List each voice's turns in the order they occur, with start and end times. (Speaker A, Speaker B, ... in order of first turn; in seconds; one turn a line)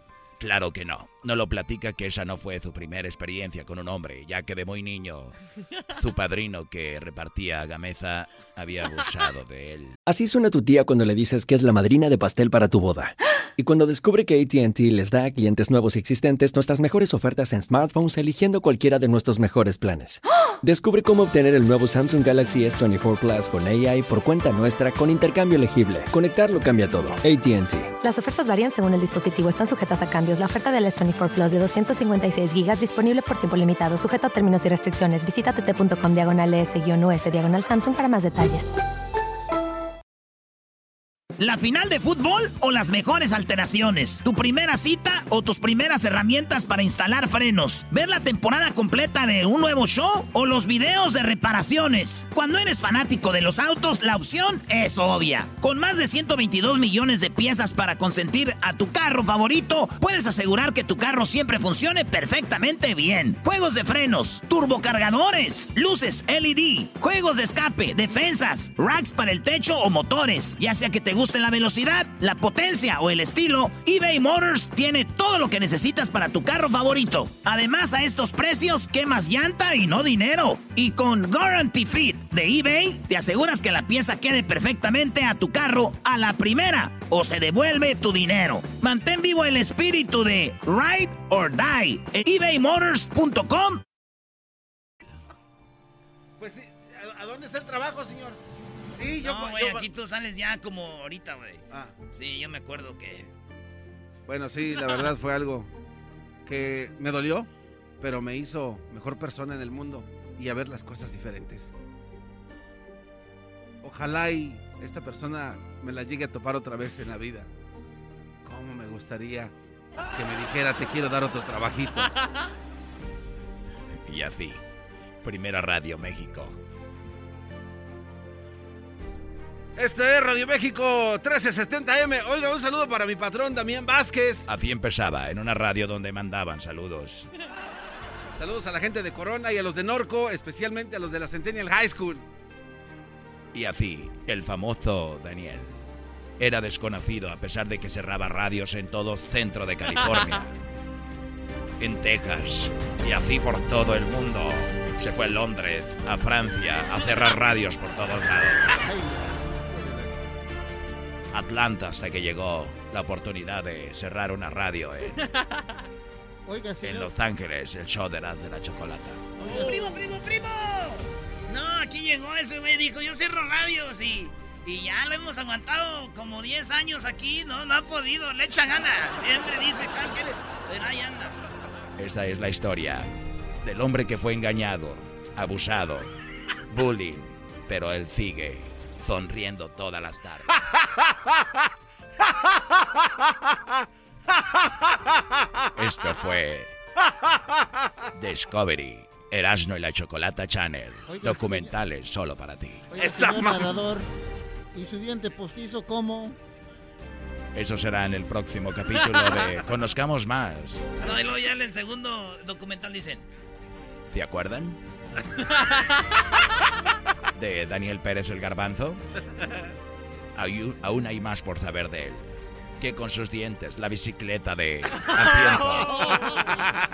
Speaker A: 0.4-5.3
Speaker A: 6.0-10.0
Speaker B: 10.1-27.9
Speaker C: 28.0-38.7
Speaker D: 41.4-93.8
Speaker E: 96.4-98.4
Speaker E: 99.0-99.9
Speaker D: 99.2-103.3
Speaker E: 104.3-105.7
Speaker E: 106.5-107.5
Speaker E: 108.0-111.7
Speaker E: 113.8-117.5
Speaker E: 118.4-119.5
Speaker E: 120.1-122.1
Speaker A: 124.0-124.6
Speaker A: 125.2-126.6
Speaker E: 129.8-134.4
Speaker A: 134.5-137.3
Speaker E: 138.4-142.2
Speaker A: 143.5-145.7
Speaker A: 146.4-150.5
Speaker A: 151.8-158.7
Speaker F: 158.7-160.3
Speaker A: 161.3-165.3
Speaker F: 166.4-167.1
Speaker A: 166.8-169.3
Speaker F: 169.4-170.0
Speaker D: 169.4-181.3
Speaker A: 182.0-186.1
Speaker A: 186.7-190.5
Speaker A: 195.7-196.8
Speaker A: 198.1-202.9
Speaker F: 201.0-201.7
Speaker F: 202.9-204.1
Speaker E: 203.0-203.8
Speaker F: 204.7-206.3
Speaker A: 207.5-210.8
Speaker D: 211.0-213.2
Speaker A: 214.1-214.8
Speaker A: 217.3-219.0
Speaker A: 220.3-222.3
Speaker A: 222.8-226.1
Speaker F: 226.1-226.6